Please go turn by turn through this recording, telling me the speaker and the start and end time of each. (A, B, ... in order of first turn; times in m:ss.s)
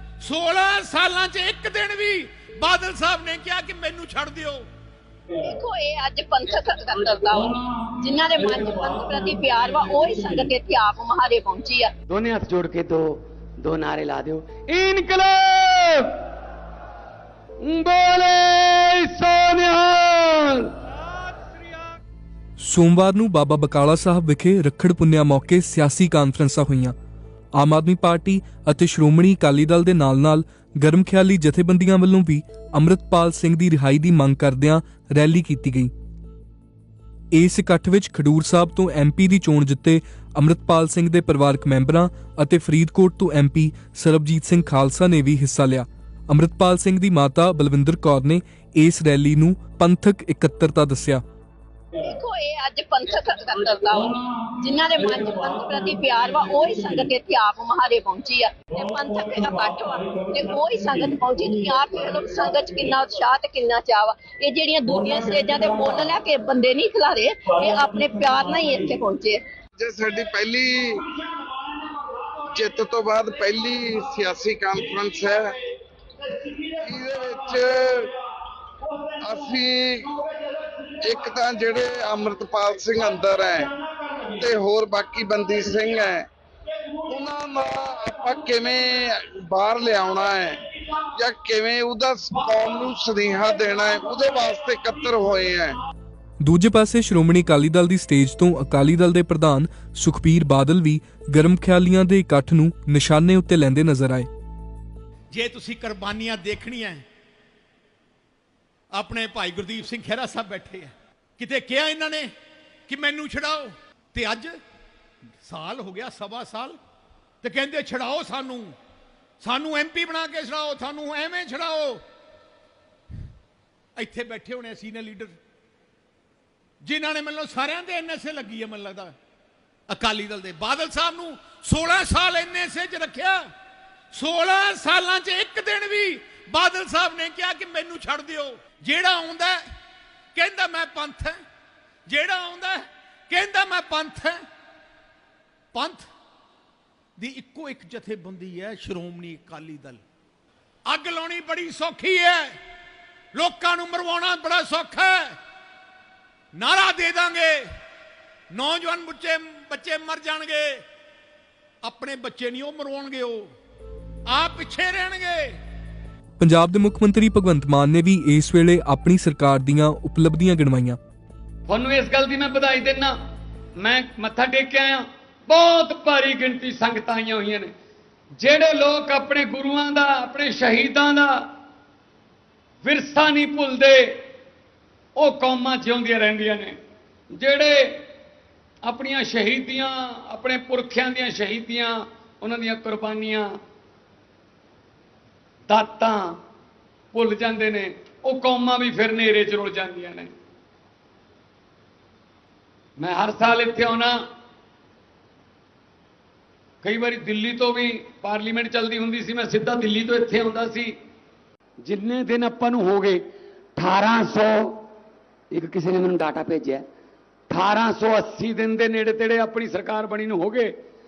0:00.2-0:04.6 A
0:05.4-0:11.9 B
0:12.3-0:13.0 C
0:13.6-0:16.0 C
0:17.7-0:20.4 C
0:22.6-0:26.9 D
0:27.6-0:35.9 D
0:37.3-0:51.2 D
0:52.0-1:09.4 B
1:09.8-1:11.0 E
1:12.6-1:15.5 E
1:16.8-1:18.1 E
1:19.2-1:20.1 E
1:19.3-1:19.6 C
1:21.0-1:23.7 E
1:24.3-1:26.3 E
1:27.1-1:30.6 E
1:31.2-1:35.8 E
1:36.4-1:44.3 D
1:45.3-1:47.0 A
1:48.9-1:52.3 A
1:52.9-1:54.6 A
1:55.4-1:56.8 A
1:57.4-1:58.7 A
1:59.4-2:02.0 A
2:04.0-2:05.4 A
2:06.8-2:09.1 A
2:09.9-2:13.5 A
2:14.1-2:19.6 A
2:20.3-2:21.4 A
2:22.1-2:24.4 A
2:25.7-2:26.1 A
2:27.2-2:30.0 A
2:30.8-2:32.6 A
2:33.3-2:35.3 A
2:36.5-2:37.6 A
2:38.5-2:40.8 A
2:41.8-2:43.5 A
2:44.3-2:45.6 A
2:46.4-2:51.0 D
2:51.7-2:53.1 C
2:53.8-2:57.7 C
2:58.4-3:01.3 C
3:02.8-3:04.1 C
3:05.2-3:06.8 C
3:07.3-3:08.0 C
3:08.8-3:13.5 C
3:15.7-3:16.4 C
3:17.1-3:20.3 C
3:23.0-3:24.1 C
3:26.8-3:30.9 C
3:31.8-3:33.2 C
3:33.8-3:34.8 C
3:35.5-3:36.8 C
3:37.5-3:40.7 C